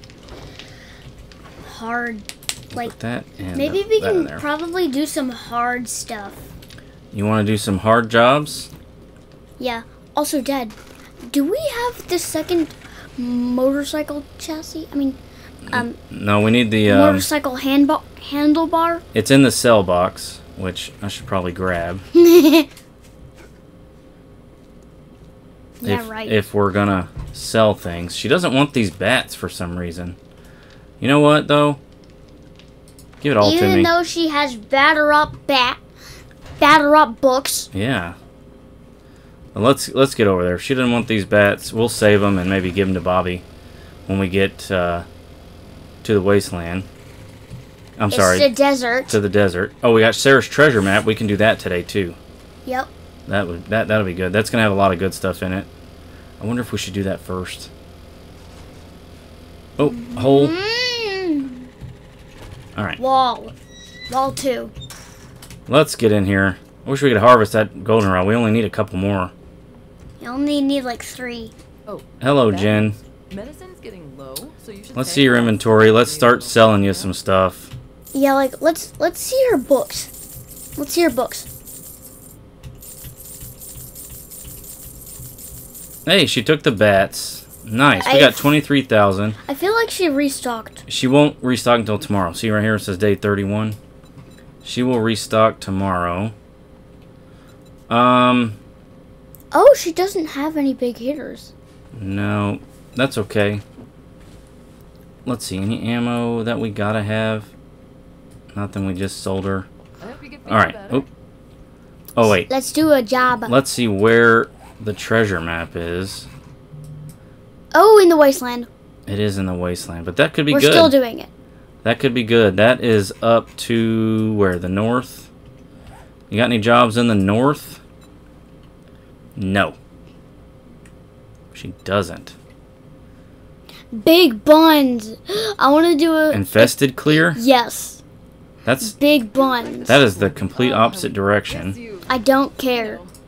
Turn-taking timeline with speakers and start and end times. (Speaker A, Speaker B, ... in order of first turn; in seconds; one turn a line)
Speaker A: 1.6-2.9
Speaker B: 2.7-4.4
Speaker A: 3.5-6.4
Speaker B: 7.1-8.7
Speaker A: 9.6-10.8
Speaker A: 11.3-15.2
Speaker B: 15.7-17.3
Speaker A: 15.7-16.0
Speaker A: 16.8-19.0
Speaker B: 19.1-22.0
Speaker A: 22.1-22.7
Speaker A: 25.8-26.4
Speaker B: 25.8-30.2
Speaker B: 31.0-31.8
Speaker B: 33.2-33.9
Speaker A: 33.4-35.8
Speaker A: 36.6-37.7
Speaker B: 37.7-38.1
Speaker B: 39.5-43.4
Speaker B: 44.1-45.0
Speaker B: 46.0-46.9
Speaker B: 48.0-48.5
Speaker A: 48.1-49.2
Speaker B: 49.1-52.2
Speaker A: 52.6-52.9
Speaker B: 53.3-55.7
Speaker B: 56.4-57.7
Speaker B: 59.8-60.5
Speaker A: 59.8-61.7
Speaker A: 63.0-63.5
Speaker A: 64.1-64.7
Speaker B: 65.7-69.3
Speaker A: 70.2-71.5
Speaker C: 71.8-77.1
Speaker B: 72.2-73.0
Speaker B: 74.9-77.7
Speaker A: 78.1-80.1
Speaker A: 80.8-81.5
Speaker B: 86.0-89.4
Speaker A: 88.0-88.5
Speaker A: 89.5-90.8
Speaker B: 90.9-93.8
Speaker B: 94.6-96.3
Speaker B: 97.9-98.6
Speaker A: 99.5-101.5
Speaker B: 101.9-103.6
Speaker B: 105.2-107.5
Speaker B: 108.5-109.7
Speaker C: 110.0-111.1
Speaker B: 110.5-111.0
Speaker B: 112.2-112.5
Speaker A: 112.2-113.5
Speaker B: 113.5-116.3
Speaker A: 117.7-118.7
Speaker B: 119.1-121.0
Speaker A: 120.5-121.3
Speaker B: 121.8-125.3
Speaker B: 126.3-127.8
Speaker B: 129.3-129.8
Speaker B: 131.5-132.3
Speaker A: 133.9-138.0
Speaker B: 136.3-137.4
Speaker B: 138.6-138.9
Speaker A: 138.8-140.0
Speaker C: 139.3-142.2
Speaker B: 139.8-141.8
Speaker A: 142.1-143.0
Speaker C: 142.7-143.1